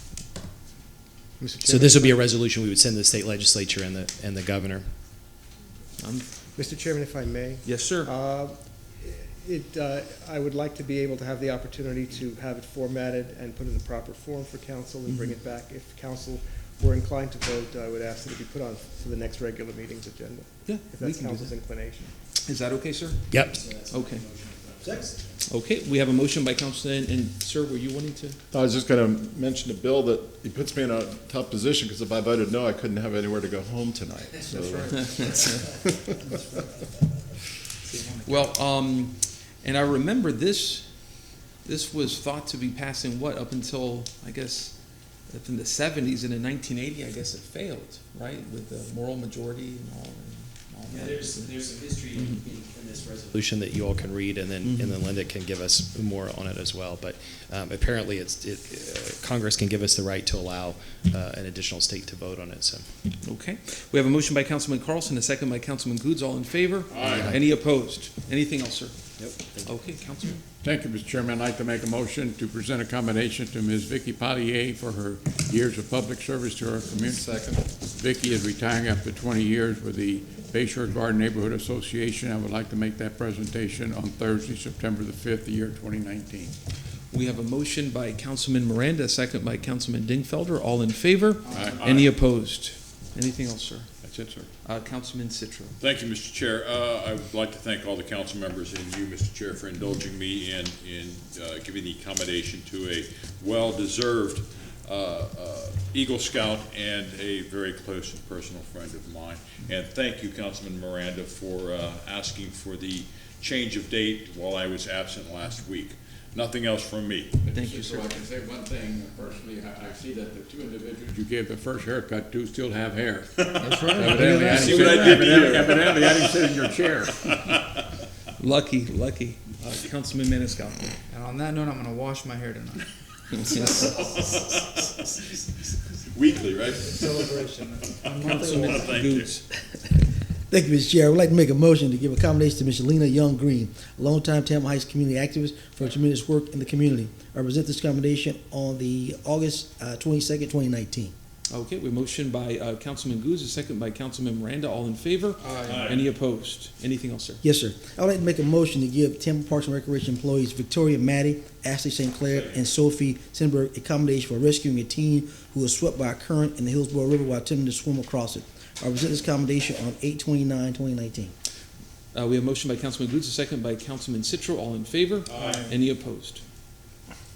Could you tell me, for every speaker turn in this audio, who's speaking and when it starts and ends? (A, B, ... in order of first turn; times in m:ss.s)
0:01.4-0:02.2 A
0:01.6-0:04.8 B
0:06.0-0:06.3 C
0:06.6-0:22.1 A
0:07.6-0:08.1 C
0:20.6-0:21.5 C
0:22.4-0:23.4 C
0:23.3-0:25.2 B
0:23.9-0:24.2 C
0:25.4-0:28.4 C
0:28.5-0:36.2 D
0:34.4-0:35.4 E
0:35.2-0:35.5 C
0:37.8-0:38.6 E
0:38.2-0:40.9 C
0:41.6-0:44.7 C
0:45.3-0:51.5 C
0:50.9-1:02.8 B
0:54.6-0:55.0 C
1:03.2-1:09.0 C
1:06.9-1:07.4 F
1:09.2-1:09.7 B
1:09.6-1:10.4 C
1:10.6-1:26.5 G
1:17.1-1:17.6 D
1:27.1-1:33.9 C
1:31.5-1:31.8 G
1:31.8-1:32.1 F
1:34.0-1:34.5 G
1:34.6-1:35.7 C
1:35.8-1:57.4 F
1:57.4-2:03.4 G
1:57.5-1:58.1 C
2:03.4-2:03.8 F
2:03.5-2:05.5 E
2:03.9-2:07.3 G
2:04.5-2:06.4 F
2:07.3-2:07.6 F
2:08.4-2:10.9 C
2:11.1-2:12.9 E
2:13.4-2:15.1 F
2:16.1-2:17.4 F
2:16.9-2:19.0 E
2:18.0-2:19.3 F
2:18.3-2:19.4 C
2:20.5-2:31.1 H
2:31.5-2:37.4 C
2:35.4-2:35.8 E
2:35.6-2:36.0 F
2:37.4-2:51.3 H
2:42.2-2:42.6 F
2:52.1-2:56.4 C
2:55.3-2:55.6 F
2:55.4-2:55.6 E